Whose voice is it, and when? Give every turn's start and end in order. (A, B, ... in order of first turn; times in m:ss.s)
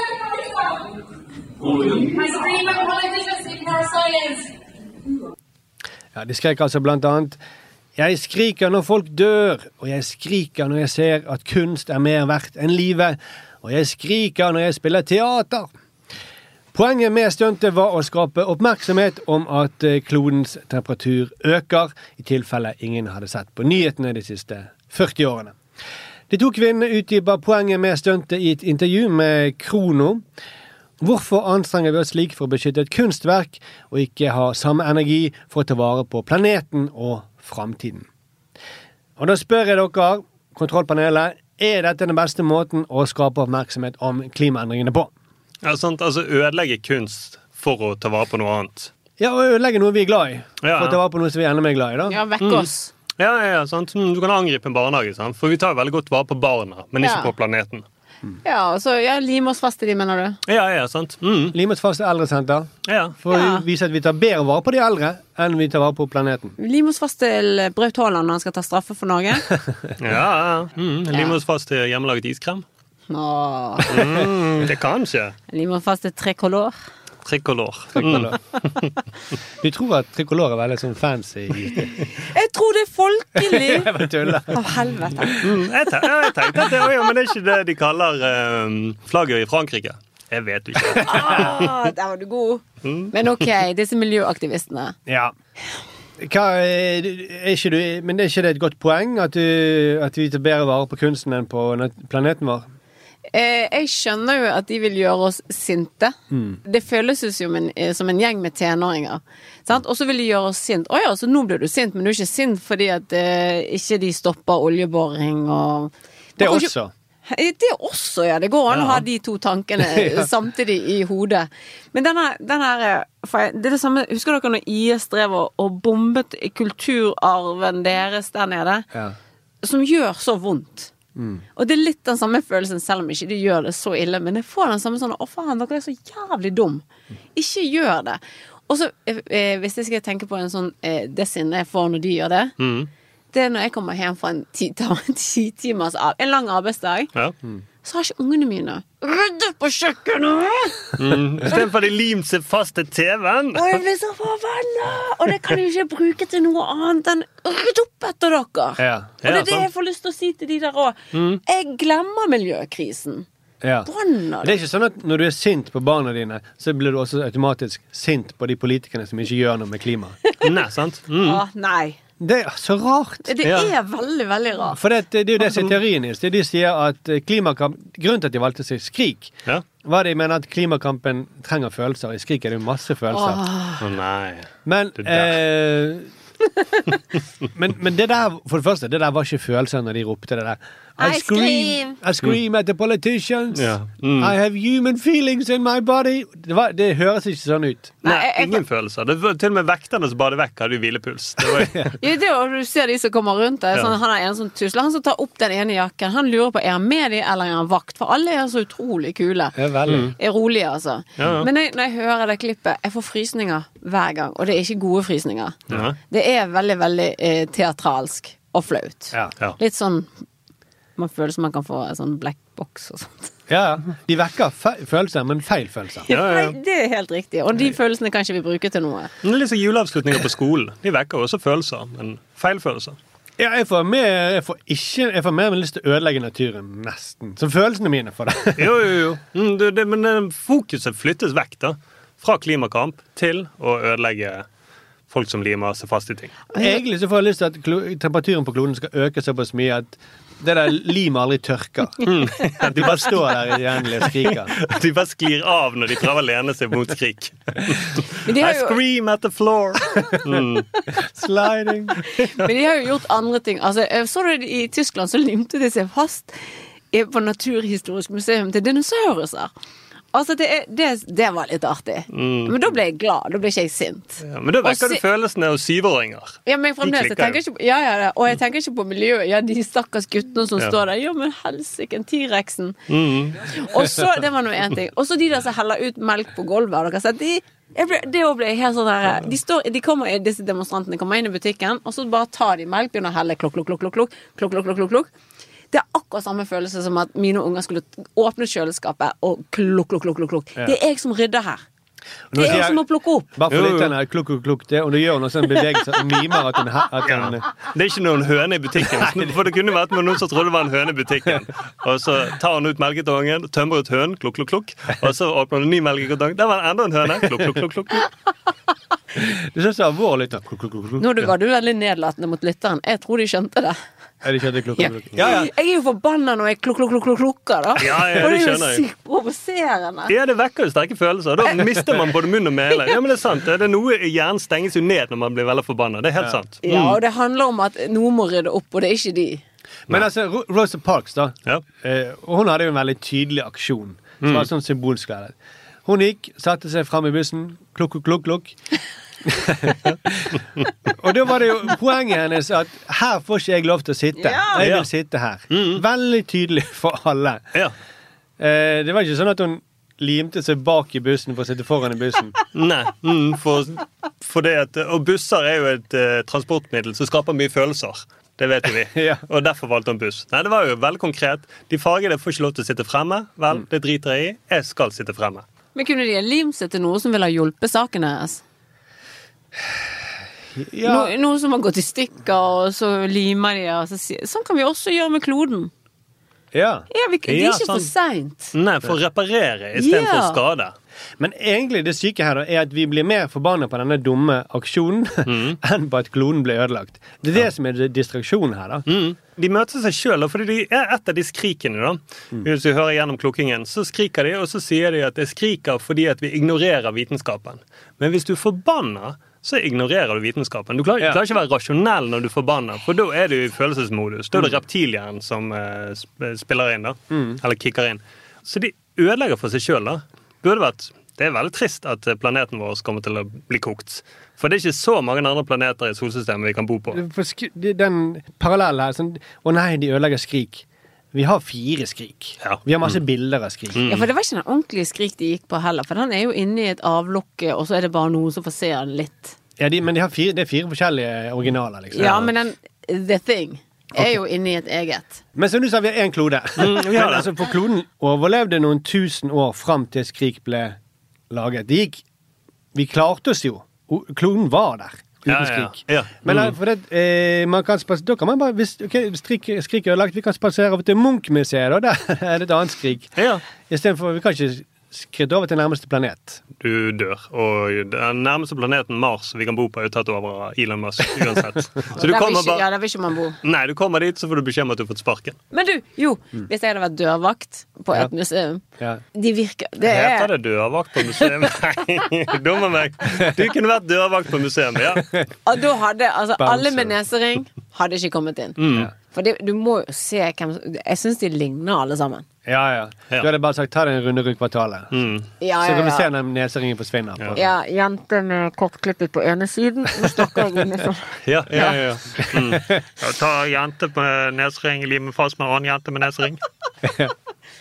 0:06.2-0:07.4 A
0:08.0-0:15.7 A
0:16.7-0:25.6 A
0:26.3-0:30.2 A
0:31.0-0:38.1 A
0:39.2-0:45.1 A
0:45.6-0:48.9 B
0:49.2-0:52.2 A
0:50.6-0:51.0 B
0:52.1-0:52.9 C
0:52.4-0:52.7 B
0:53.2-0:57.8 B
0:57.0-0:57.3 C
0:58.4-1:00.4 C
1:00.5-1:01.6 B
1:01.5-1:06.6 A
1:02.8-1:03.2 B
1:03.3-1:03.6 C
1:06.6-1:09.4 C
1:10.0-1:12.6 B
1:13.1-1:13.9 C
1:13.9-1:15.4 B
1:14.0-1:14.2 A
1:15.5-1:16.7 C
1:17.2-1:18.9 B
1:18.0-1:18.4 A
1:19.6-1:22.0 A
1:22.2-1:24.0 C
1:23.4-1:24.6 A
1:24.5-1:25.4 C
1:25.4-1:31.7 B
1:30.9-1:31.4 A
1:31.0-1:35.0 C
1:32.8-1:33.1 B
1:35.1-1:35.3 A
1:36.2-1:42.6 A
1:43.3-1:56.7 C
1:46.3-1:46.6 A
1:56.4-1:56.9 A
1:57.3-2:08.9 C
1:58.7-1:59.0 B
1:59.9-2:00.3 A
2:09.6-2:10.9 C
2:11.2-2:11.4 A
2:11.6-2:16.8 C
2:17.4-2:22.5 C
2:22.6-2:22.9 B
2:23.3-2:27.1 C
2:27.8-2:30.9 C
2:31.0-2:33.8 B
2:33.5-2:43.3 C
2:38.8-2:39.1 A
2:39.2-2:39.7 B
2:41.1-2:41.4 B
2:43.6-2:43.9 A
2:43.9-2:44.6 C
2:44.4-2:50.2 A
2:50.4-2:51.4 B
2:51.2-2:52.0 C
2:52.2-2:53.3 A
2:53.2-2:54.8 C
2:53.4-2:53.7 B
2:54.8-3:03.4 A
3:03.1-3:03.8 C
3:03.8-3:05.4 B
3:04.7-3:06.1 A
3:07.6-3:17.9 A
3:11.0-3:12.0 C
3:13.6-3:14.4 B
3:18.0-3:21.9 B
3:18.0-3:18.6 C
3:21.6-3:21.9 A
3:22.0-3:29.6 C
3:29.6-3:30.1 A
3:30.1-3:40.1 C
3:31.2-3:31.5 B
3:35.7-3:36.0 B
3:41.0-3:43.3 C
3:43.5-3:46.1 A
3:46.1-3:49.1 C
3:46.1-3:46.6 B
3:49.2-3:53.0 B
3:53.4-3:58.7 A
3:58.6-4:04.4 B
4:05.1-4:06.4 B
4:06.5-4:06.8 C
4:06.6-4:14.5 A
4:12.0-4:13.4 B
4:14.0-4:20.7 B
4:18.2-4:18.8 C
4:21.0-4:22.0 A
4:22.1-4:29.5 C
4:30.1-4:35.0 C
4:32.1-4:32.6 B
4:34.2-4:37.4 B
4:36.5-4:42.8 C
4:42.9-4:43.4 B
4:43.5-4:55.1 C
4:55.7-5:01.6 C
5:02.3-5:02.8 A
5:02.3-5:03.3 C
5:03.3-5:07.5 A
5:03.5-5:03.9 B
5:07.0-5:18.1 B
5:19.2-5:21.0 A
5:21.0-5:23.8 C
5:24.2-5:25.5 A
5:24.8-5:30.1 C
5:27.8-5:28.8 B
5:30.1-5:37.0 B
5:36.6-5:39.4 C
5:39.9-5:45.3 A
5:44.2-5:44.5 B
5:45.9-5:48.6 A
5:49.3-5:50.4 A
5:50.9-5:57.4 A
5:54.2-5:54.6 C
5:54.6-5:54.9 B
5:55.5-5:55.8 B
5:58.4-6:02.3 A
6:02.5-6:15.4 B
6:09.0-6:09.2 A
6:15.8-6:18.4 C
6:20.6-6:21.1 A
6:20.8-6:25.7 C
6:26.5-6:26.9 A
6:26.9-6:28.5 C
6:27.3-6:27.9 B
6:28.5-6:30.7 B
6:29.8-6:30.4 C
6:31.2-6:38.9 A
6:35.3-6:35.6 B
6:38.9-7:07.0 B
6:57.1-6:57.4 A
7:06.9-7:13.8 A
7:12.4-7:13.0 B
7:13.7-7:14.1 B
7:13.9-7:19.4 C
7:19.6-7:22.3 A
7:21.9-7:25.2 C
7:25.4-7:30.8 A
7:26.6-7:27.3 B
7:31.3-7:32.0 A
7:32.7-7:46.4 A
7:35.3-7:36.6 B
7:43.2-7:43.4 B
7:46.6-7:52.6 B
7:52.0-7:53.4 C
7:53.4-7:55.4 B
7:55.5-8:00.3 C
7:59.8-8:05.1 B
8:05.4-8:08.6 C
8:06.4-8:06.9 A
8:08.6-8:08.9 B
8:09.1-8:12.2 C
8:12.5-8:14.9 A
8:14.9-8:15.3 B
8:15.4-8:16.1 C
8:15.6-8:17.5 A
8:17.4-8:21.8 C
8:21.2-8:26.4 B
8:21.5-8:22.8 A
8:26.8-8:27.1 A